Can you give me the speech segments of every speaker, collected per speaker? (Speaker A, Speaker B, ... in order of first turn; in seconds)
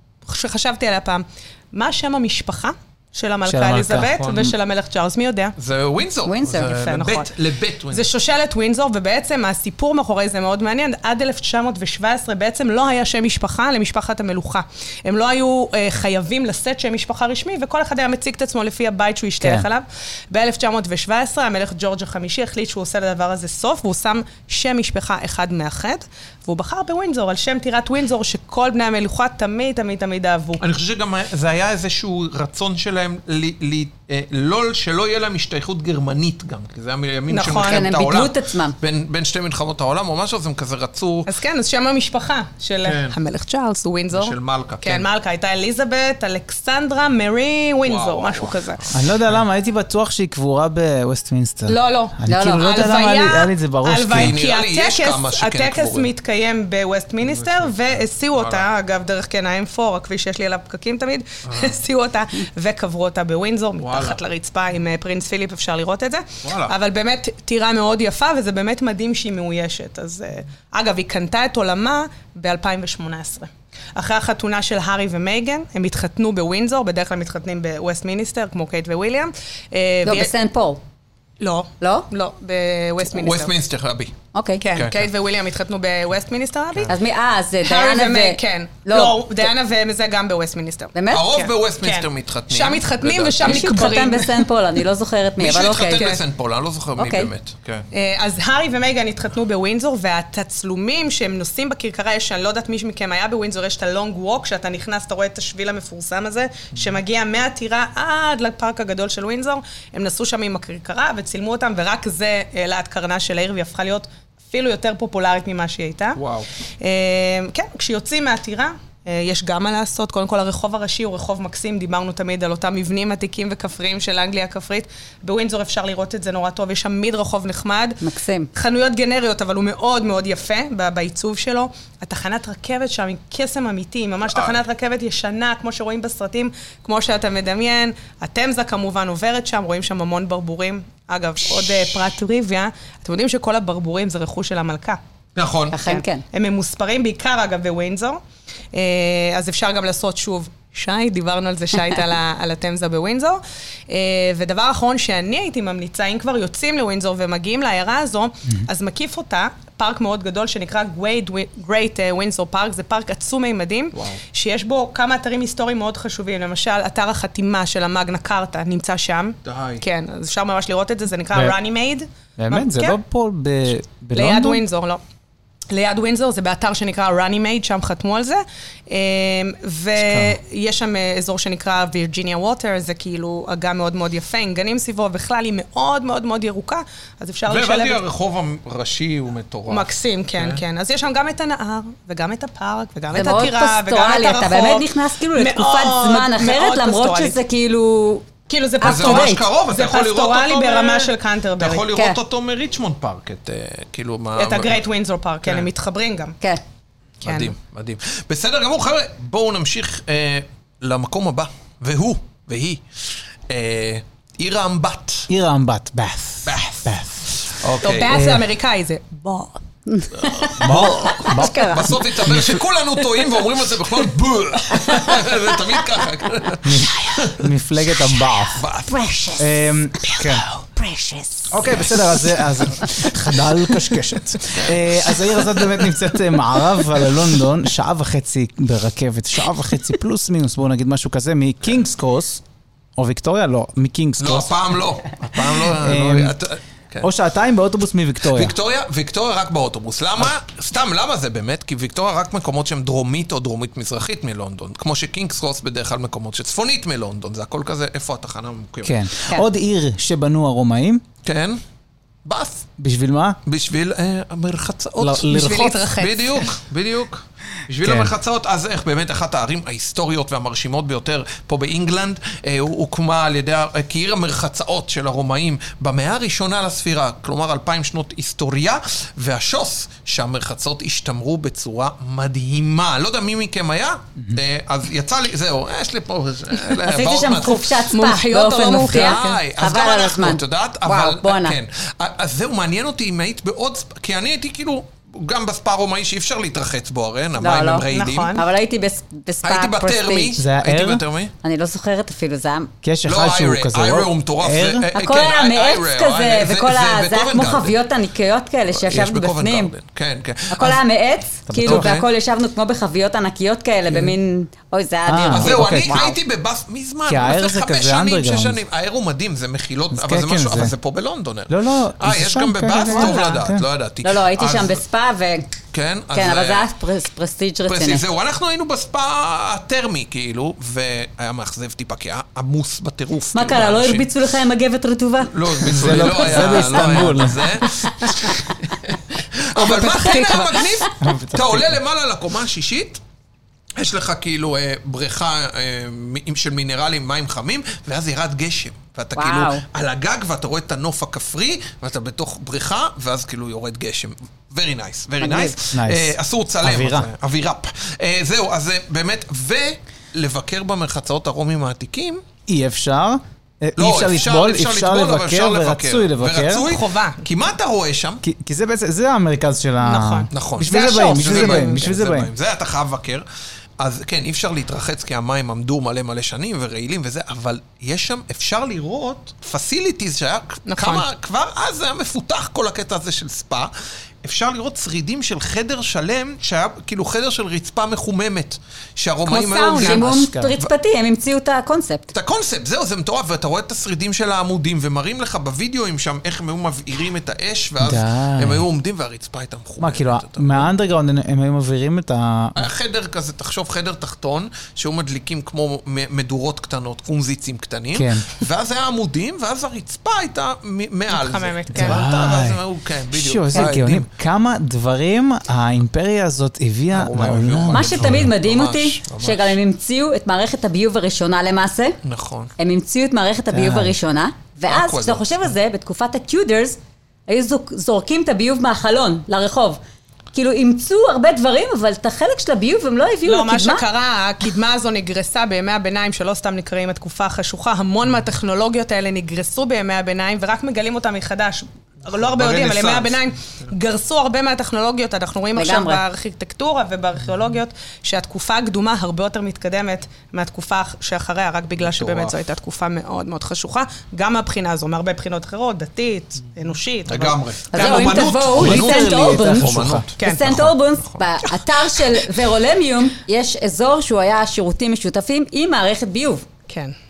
Speaker A: 0.2-5.5, 6.7-7.3, 7.9-30.6, 37.3-37.9, 41.3-48.8, 51.7-80.3, 81.4-83.5, 84.6-87.0, 87.6-94.3, 95.9-96.2, 97.9-116.2, 116.8-128.0, 128.5-145.0, 145.8-148.2, 148.7-173.0, 174.2-175.0, 175.7-188.0, 189.7-197.4, 198.5-201.8, 204.3-206.4, 207.2-207.5, 217.8-219.6, 265.3-266.5, 287.9-289.4, 297.9-298.4, 339.6-340.5, 366.6-367.2, 369.8-371.9, 380.7-381.1, 389.2-390.1, 411.1-412.3, 433.2-458.8, 460.2-460.5, 466.7-466.9
Speaker B: 3.5-4.5, 19.4-19.7, 48.9-54.3, 171.3-171.6, 172.4-174.6, 180.0-180.4, 215.3-217.3, 218.0-218.5, 220.6-222.6, 226.6-228.7, 229.4-230.4, 231.5-242.4, 243.0-244.5, 245.3-246.4, 247.0-248.6, 258.8-261.0, 262.8-263.4, 265.0-265.8, 267.8-268.1, 300.4-301.0, 302.8-304.9, 311.5-312.0, 315.1-316.0, 317.1-318.6, 319.9-320.7, 321.5-323.6, 335.6-337.5, 341.0-341.8, 355.7-357.1, 362.5-366.6, 368.2-372.3, 390.1-390.6, 397.8-398.6, 399.8-402.6, 407.9-408.3, 411.7-412.6, 413.1-418.3, 423.5-424.0, 458.5-460.1
Speaker C: 5.6-8.1, 30.6-41.3, 42.8-43.2, 44.1-45.1, 47.8-49.4, 54.1-56.1, 57.2-58.7, 61.5-61.8, 63.8-64.2, 66.4-66.7, 83.0-84.1, 84.7-85.0, 91.1-94.0, 95.4-97.9, 116.2-116.5, 134.3-134.6, 145.4-145.8, 163.9-164.2, 169.4-169.8, 187.5-190.6, 198.8-204.8, 205.4-205.7, 207.2-212.8, 213.5-215.3, 216.4-218.3, 220.1-227.5, 228.6-229.0, 244.2-247.1, 248.3-259.3, 261.2-261.6, 262.2-262.7, 263.5-287.9, 288.8-298.4, 299.4-301.3, 303.1-307.8, 308.7-310.8, 311.7-312.1, 315.3-324.8, 325.7-326.7, 327.7-334.1, 335.3-343.0, 343.8-362.2, 363.8-368.2, 370.3-373.3, 373.8-383.7, 384.2-390.7, 392.1-400.7, 402.6-414.1, 416.9-419.6, 422.0-422.5, 424.7-425.2, 442.1-443.2, 451.8-452.4, 457.1-461.5
Speaker D: 6.2-6.7, 37.5-38.8, 52.2-52.9, 80.0-80.8, 81.8-82.1, 84.3-84.6, 86.9-89.2, 90.9-91.3, 93.4-96.1, 97.0-97.3, 128.0-128.5, 145.7-146.2, 193.1-198.3, 198.8-199.4, 201.9-202.2, 219.9-222.0, 224.8-225.2, 228.9-231.7, 286.8-291.6, 297.4-300.4, 301.4-302.7, 305.0-309.7, 310.5-316.2, 322.9-323.4, 324.0-325.5, 326.1-328.0, 333.3-337.9, 340.1-340.6, 349.2-349.6, 355.2-355.6, 389.8-392.1, 417.7-422.0, 422.6-429.8, 430.3-433.9, 445.5-446.0, 457.7-466.4